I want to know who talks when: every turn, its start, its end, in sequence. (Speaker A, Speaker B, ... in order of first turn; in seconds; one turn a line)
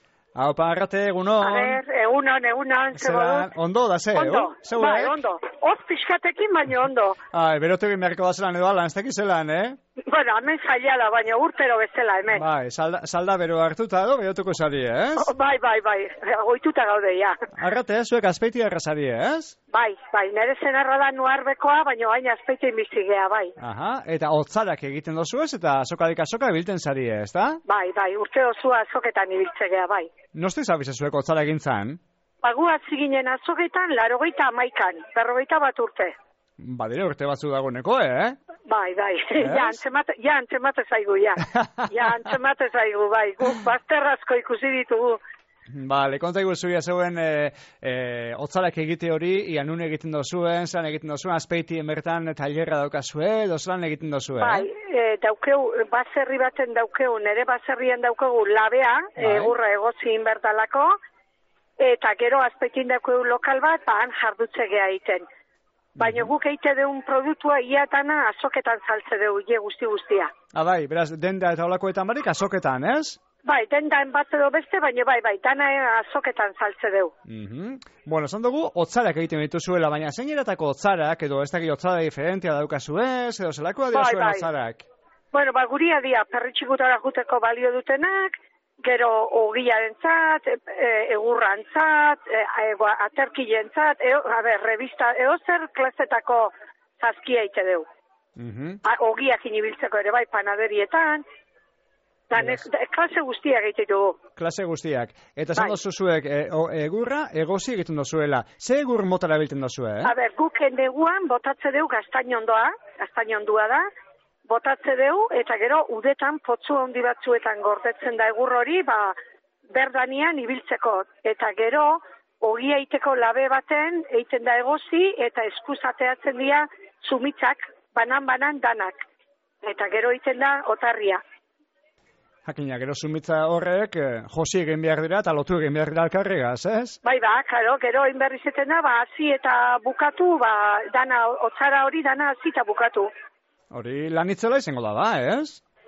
Speaker A: 0.4-1.8
Speaker B: 1.4-3.5
Speaker A: 2.9-5.2
Speaker B: 4.1-7.2
Speaker A: 7.3-9.8
Speaker B: 10.1-12.4
Speaker A: 12.3-15.3
Speaker B: 15.2-17.4
Speaker A: 17.5-19.6
Speaker B: 19.7-23.6
Speaker A: 23.6-27.6
Speaker B: 27.7-30.1
Speaker A: 30.3-32.0
Speaker B: 32.4-36.1
Speaker A: 36.6-38.4
Speaker B: 38.7-45.2
Speaker A: 39.4-39.8
Speaker A: 41.5-42.1
Speaker A: 45.7-54.7
Speaker B: 54.4-61.0
Speaker A: 59.2-59.5
Speaker B: 61.8-65.2
Speaker A: 66.0-66.3
Speaker B: 66.0-70.3
Speaker A: 70.5-73.2
Speaker B: 73.5-77.1
Speaker A: 77.3-84.9
Speaker B: 83.9-84.5
Speaker B: 85.3-97.9
Speaker A: 98.4-98.8
Speaker B: 98.8-101.2
Speaker B: 102.3-104.2
Speaker A: 104.4-110.1
Speaker B: 110.0-113.8
Speaker B: 114.5-119.2
Speaker B: 119.7-129.0
Speaker B: 129.6-131.2
Speaker A: 132.4-137.0
Speaker B: 137.0-143.1
Speaker A: 143.7-145.6